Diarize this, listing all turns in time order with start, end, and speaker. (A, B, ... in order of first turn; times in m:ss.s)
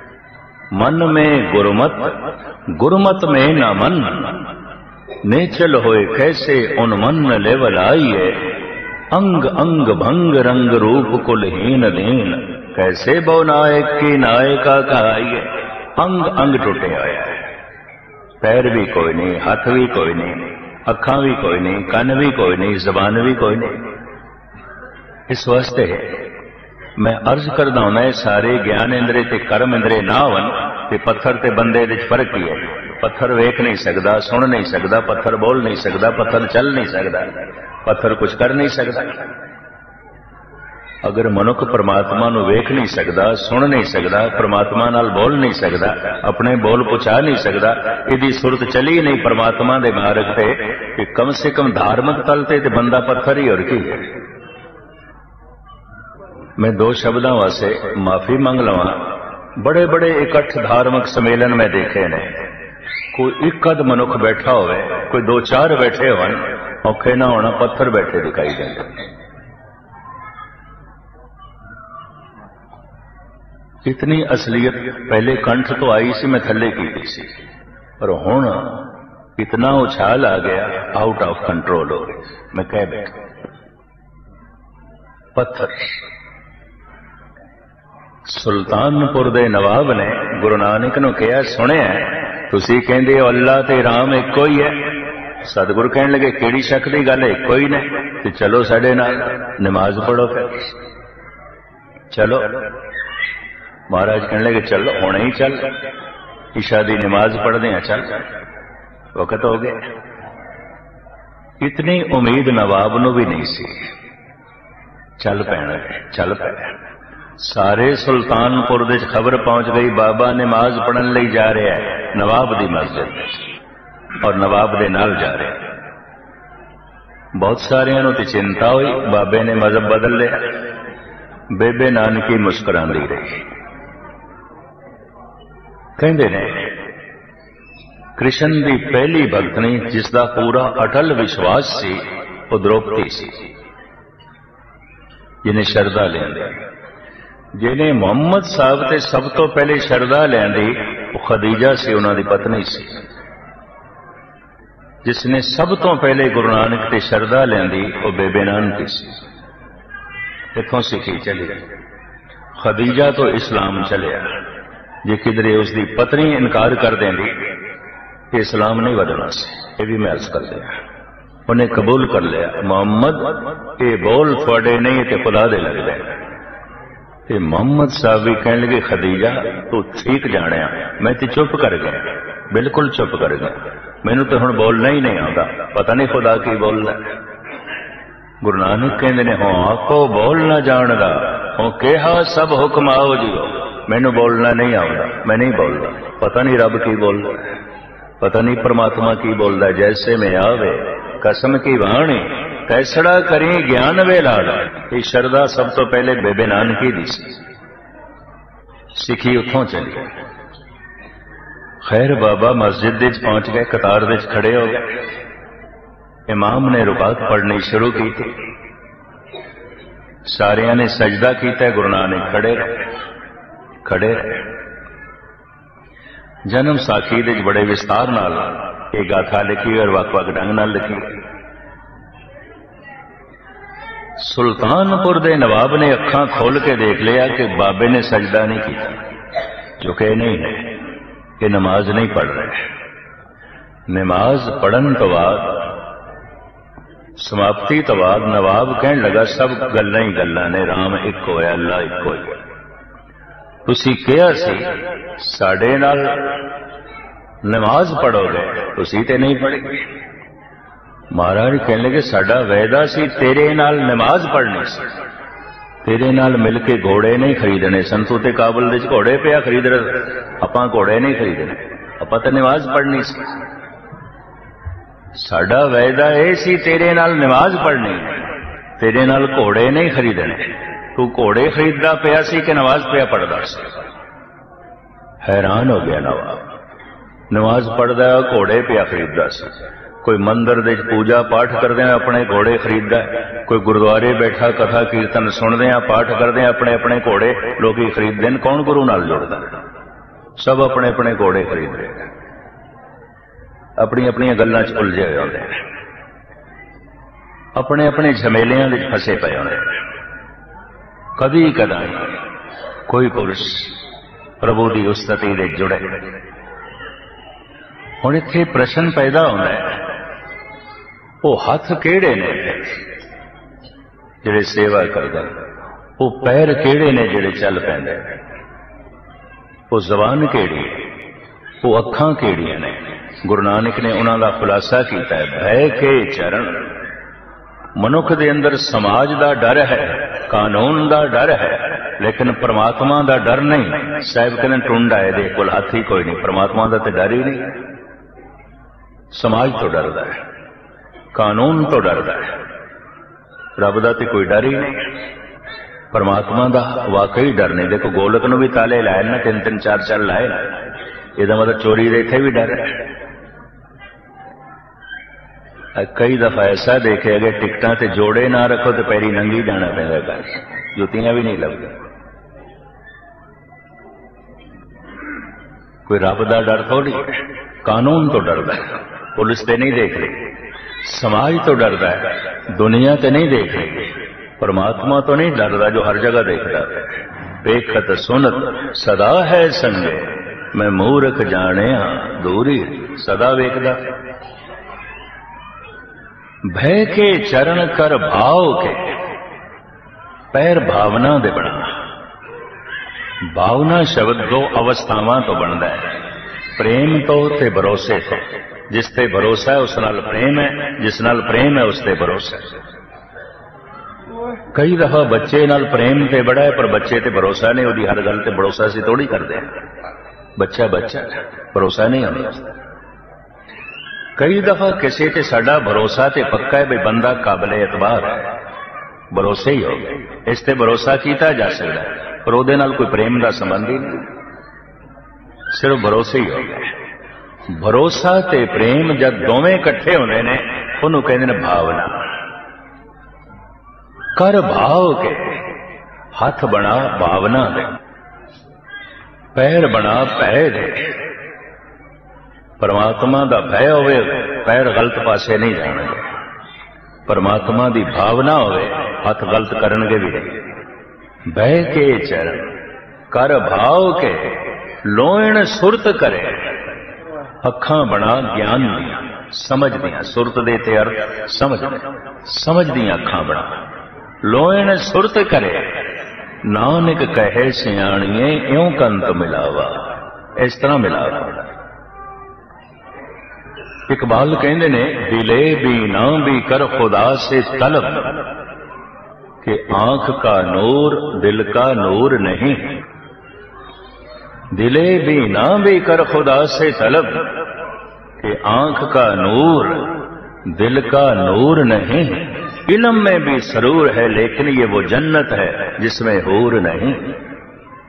0:00.7-0:04.5 A
0:05.2-0:08.5 A
0:09.1-0:17.4 A
0:18.4-0:23.9 A
0:25.3-0:26.3 A
0:27.0-0:39.3 A
0:41.0-0:54.1 A
0:56.6-1:02.4 A
1:03.1-1:09.0 A
1:13.8-1:17.3 A
1:18.0-1:23.2 A
1:25.4-1:25.9 A
1:28.2-1:40.7 A
1:42.1-1:42.8 A
1:43.9-1:45.8 A
1:46.5-1:48.2 A
1:49.1-1:49.8 A
1:51.6-1:53.8 A
1:55.2-1:56.7 A
1:57.4-2:03.4 A
2:04.2-2:05.6 A
2:07.3-2:10.6 A
2:11.5-2:13.4 A
2:16.0-2:16.8 A
2:18.2-2:23.5 A
2:25.4-2:26.6 A
2:27.5-2:33.0 A
2:35.0-2:39.2 A
2:40.5-2:41.6 A
2:42.6-2:44.4 A
2:45.0-2:47.4 A
2:48.3-2:50.7 A
2:51.5-2:56.1 A
2:57.3-3:07.1 A
3:08.4-3:17.5 A
3:18.2-3:27.4 A
3:28.9-3:30.1 A
3:31.8-3:35.0 A
3:36.3-3:38.4 A
3:40.3-3:42.9 A
3:43.8-3:44.5 A
3:46.4-3:51.1 A
3:54.2-3:59.0 A
3:59.8-4:00.8 A
4:01.4-4:02.6 A
4:03.9-4:05.7 A
4:07.2-4:12.4 A
4:13.6-4:16.5 A
4:17.4-4:19.8 A
4:21.1-4:24.9 A
4:25.8-4:33.3 A
4:35.2-4:38.2 A
4:38.8-4:43.8 A
4:45.2-4:46.4 A
4:47.3-4:59.6 A
5:00.4-5:02.1 A
5:03.8-5:05.6 A
5:07.6-5:09.7 A
5:11.2-5:12.2 A
5:12.9-5:13.8 A
5:14.4-5:16.0 A
5:18.0-5:19.8 A
5:21.2-5:22.8 A
5:24.2-5:25.4 A
5:26.0-5:28.1 A
5:29.7-5:30.9 A
5:31.6-5:36.6 A
5:37.8-5:47.5 A
5:49.1-5:50.2 A
5:51.1-5:52.3 A
5:53.6-5:54.9 A
5:55.9-6:00.6 A
6:01.2-6:02.9 A
6:05.7-6:11.8 A
6:15.8-6:20.3 A
6:20.8-6:33.9 A
6:36.4-6:39.0 A
6:40.3-6:41.8 A
6:43.2-6:46.0 A
6:46.6-6:52.6 A
6:54.5-6:59.5 A
7:00.4-7:02.5 A
7:04.2-7:08.3 A
7:09.1-7:14.1 A
7:15.5-7:16.7 A
7:17.5-7:22.1 A
7:24.2-7:25.4 A
7:26.1-7:27.8 A
7:29.3-7:30.9 A
7:32.6-7:36.0 A
7:37.1-7:40.4 A
7:41.3-7:42.5 A
7:43.1-7:46.6 A
7:47.4-7:53.5 A
7:54.2-7:55.8 A
7:56.4-8:01.5 A
8:03.9-8:08.3 A
8:09.4-8:12.8 A
8:14.5-8:17.4 A
8:18.2-8:27.2 A